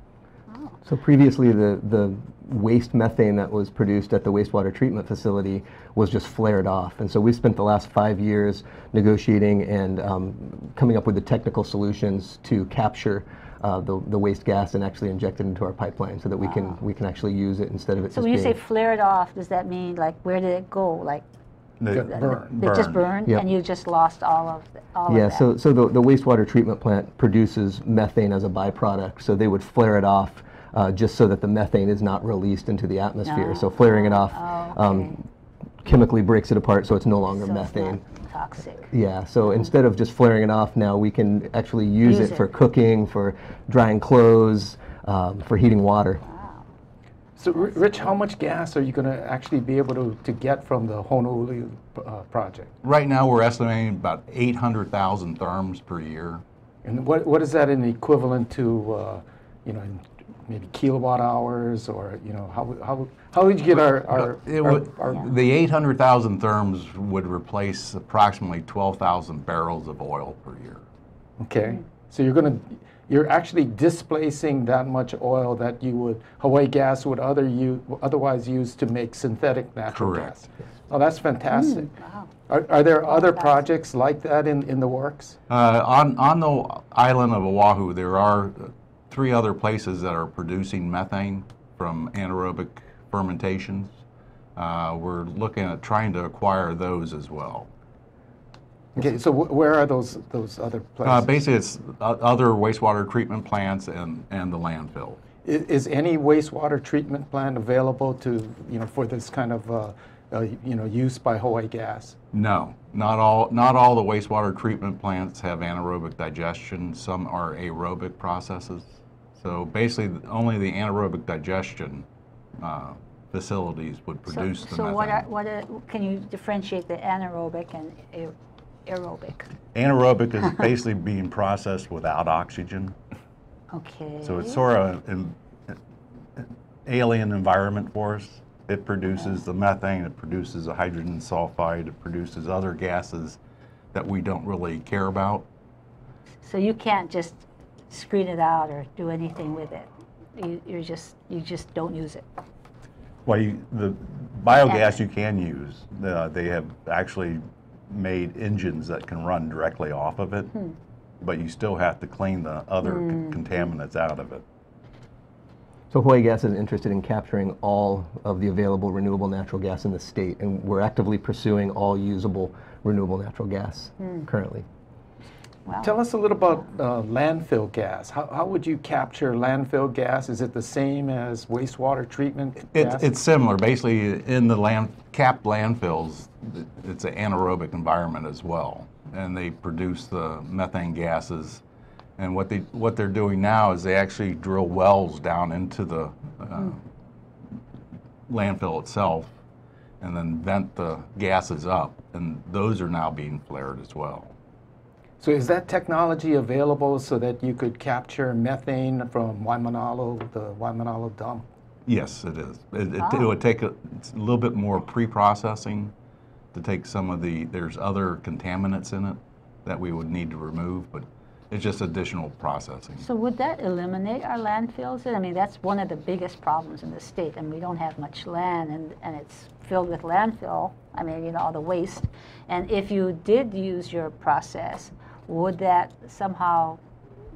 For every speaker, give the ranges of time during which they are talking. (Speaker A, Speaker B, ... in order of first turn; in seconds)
Speaker A: 0.8-18.6, 25.1-35.3, 35.8-38.0, 38.9-46.2, 165.9-174.7
Speaker B: 16.4-16.8, 18.1-21.2, 22.0-25.5, 33.2-35.2, 37.3-38.9, 42.0-42.5, 46.2-46.7, 47.5-48.1, 81.5-82.3, 83.0-83.6, 124.3-128.3, 128.9-129.5, 133.7-134.6, 146.4-152.3, 154.7-155.0, 162.8-163.4, 174.0-174.3, 175.7-175.9, 213.0-213.3, 223.0-236.8
Speaker C: 21.8-23.0, 52.8-56.4, 64.1-70.8, 79.9-80.3, 85.5-93.9, 94.6-97.7, 101.0-105.2, 112.3-122.1, 122.6-125.3, 129.7-133.0, 134.2-135.8, 136.4-143.4, 143.9-145.5, 153.2-160.6, 161.2-164.4, 182.7-191.6, 192.2-196.8, 198.3-199.3, 200.0-204.3, 211.9-215.9, 216.5-223.1
Speaker D: 21.9-22.5, 47.4-52.7, 56.8-65.3, 71.4-81.9, 82.5-85.4, 99.0-101.3, 105.4-112.2, 175.8-183.1, 205.2-211.4